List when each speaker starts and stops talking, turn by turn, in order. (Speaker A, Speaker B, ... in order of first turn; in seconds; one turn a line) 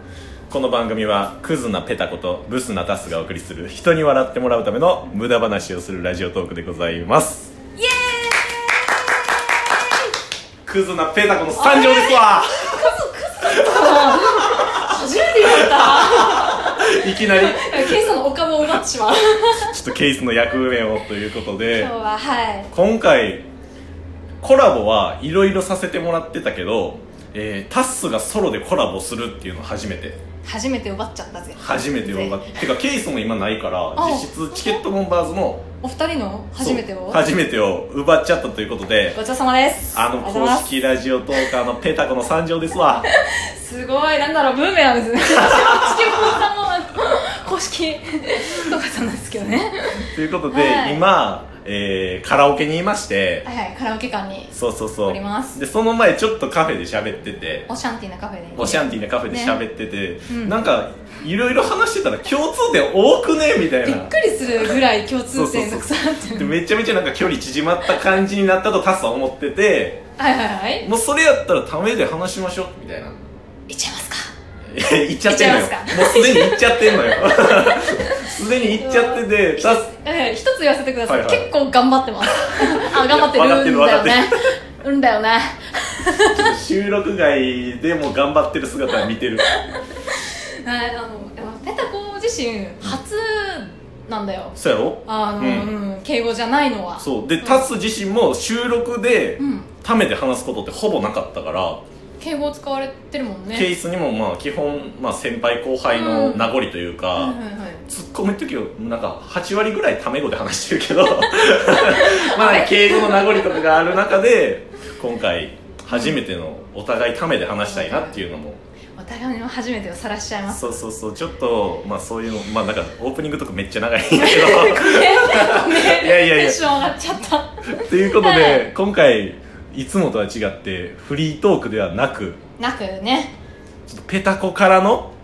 Speaker A: 0.5-7.5
Speaker B: 7.8-10.1
Speaker A: 10.7-12.9
Speaker B: 11.6-19.7
Speaker A: 13.4-18.1
Speaker A: 19.6-21.9
Speaker B: 21.7-22.7
Speaker A: 22.7-23.4
Speaker A: 24.4-30.2
Speaker B: 30.4-32.5
Speaker A: 31.6-35.6
Speaker B: 34.0-34.8
Speaker B: 35.8-37.2
Speaker A: 36.6-39.2
Speaker B: 39.1-40.8
Speaker A: 39.9-43.1
Speaker B: 43.0-51.0
Speaker A: 45.3-46.4
Speaker A: 50.0-53.5
Speaker B: 53.5-54.5
Speaker A: 54.5-57.7
Speaker B: 55.0-55.6
Speaker B: 57.7-59.6
Speaker A: 58.6-64.1
Speaker B: 60.3-60.6
Speaker B: 63.8-66.5
Speaker A: 65.3-70.0
Speaker B: 70.2-70.9
Speaker A: 70.8-73.2
Speaker B: 73.7-74.3
Speaker A: 74.7-79.9
Speaker B: 75.2-77.0
Speaker B: 78.0-86.5
Speaker A: 81.0-81.5
Speaker A: 82.3-84.4
Speaker A: 86.2-89.5
Speaker B: 89.5-97.7
Speaker A: 94.6-95.7
Speaker A: 97.0-101.8
Speaker B: 99.4-99.7
Speaker B: 102.2-103.7
Speaker A: 103.5-118.6
Speaker B: 105.9-106.5
Speaker B: 107.2-107.8
Speaker B: 111.8-113.7
Speaker B: 115.9-116.2
Speaker B: 117.6-118.2
Speaker B: 119.0-120.8
Speaker A: 120.5-126.7
Speaker B: 124.2-128.7
Speaker A: 127.7-132.4
Speaker B: 132.6-133.3
Speaker A: 133.9-135.1